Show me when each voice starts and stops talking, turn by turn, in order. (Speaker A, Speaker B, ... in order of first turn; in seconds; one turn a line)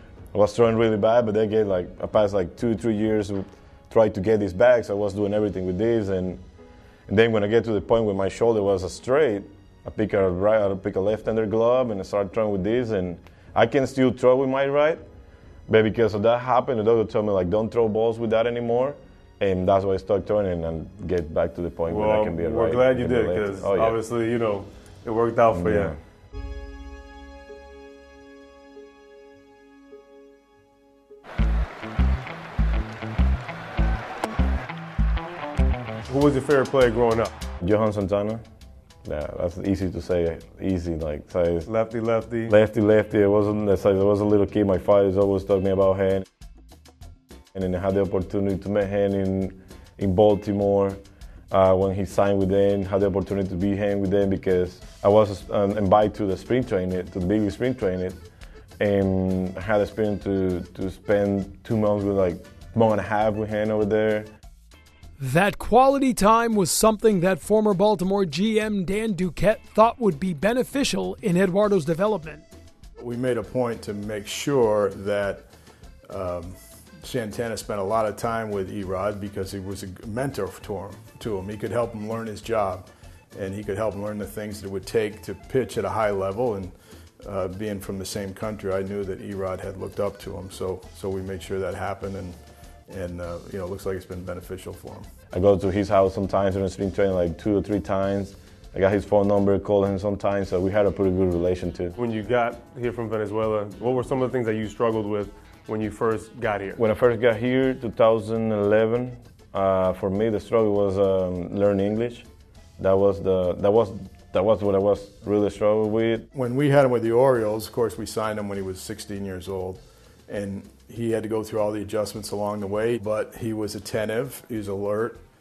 Speaker A: 0.3-6.4
Speaker A: 7.1-15.0
Speaker A: 15.7-24.0
Speaker B: 21.9-25.9
Speaker A: 25.5-26.0
Speaker B: 36.1-37.3
Speaker A: 37.6-38.4
Speaker A: 39.0-41.7
Speaker B: 41.7-42.5
Speaker A: 42.5-46.3
Speaker A: 47.5-51.0
Speaker A: 51.5-58.2
Speaker A: 58.8-64.3
Speaker C: 65.2-72.5
Speaker D: 73.0-75.5
Speaker D: 76.1-92.4
Speaker D: 92.9-95.1
Speaker A: 95.3-102.0
Speaker B: 102.0-106.8
Speaker A: 106.8-112.3
Speaker A: 112.8-116.3
Speaker D: 116.3-125.2